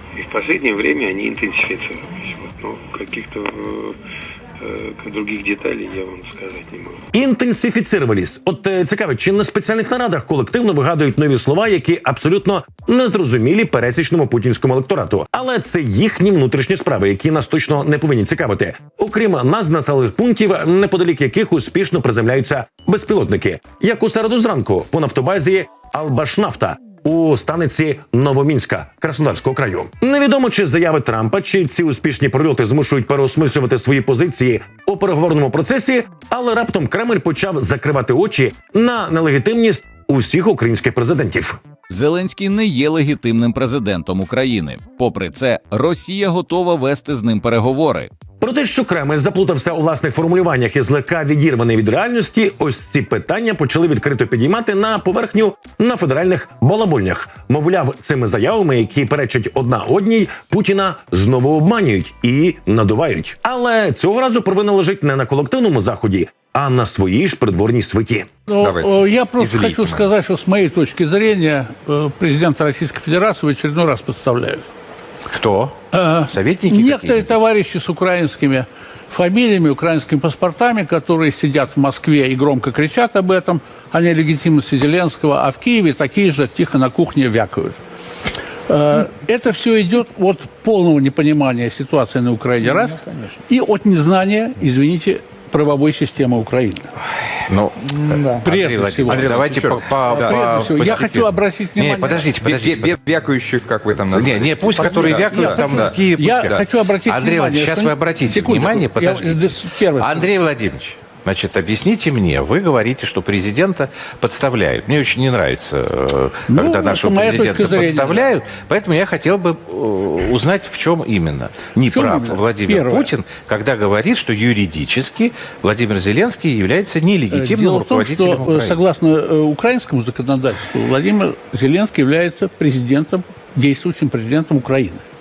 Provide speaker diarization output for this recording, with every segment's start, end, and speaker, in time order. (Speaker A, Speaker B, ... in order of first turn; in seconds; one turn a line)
Speaker A: 0.2-3.9
Speaker A: 4.6-6.9
Speaker B: 7.1-41.6
Speaker C: 41.9-48.1
Speaker B: 48.4-68.3
Speaker D: 68.5-74.7
Speaker E: 68.6-70.1
Speaker E: 75.3-75.8
Speaker D: 75.9-87.8
Speaker E: 76.3-77.4
Speaker D: 88.7-96.9
Speaker E: 97.5-103.2
Speaker D: 98.1-102.3
Speaker F: 102.5-102.9
Speaker F: 103.9-105.9
Speaker E: 104.1-128.8
Speaker D: 104.7-110.3
Speaker D: 116.5-118.3
Speaker D: 121.9-123.1
Speaker D: 127.3-135.0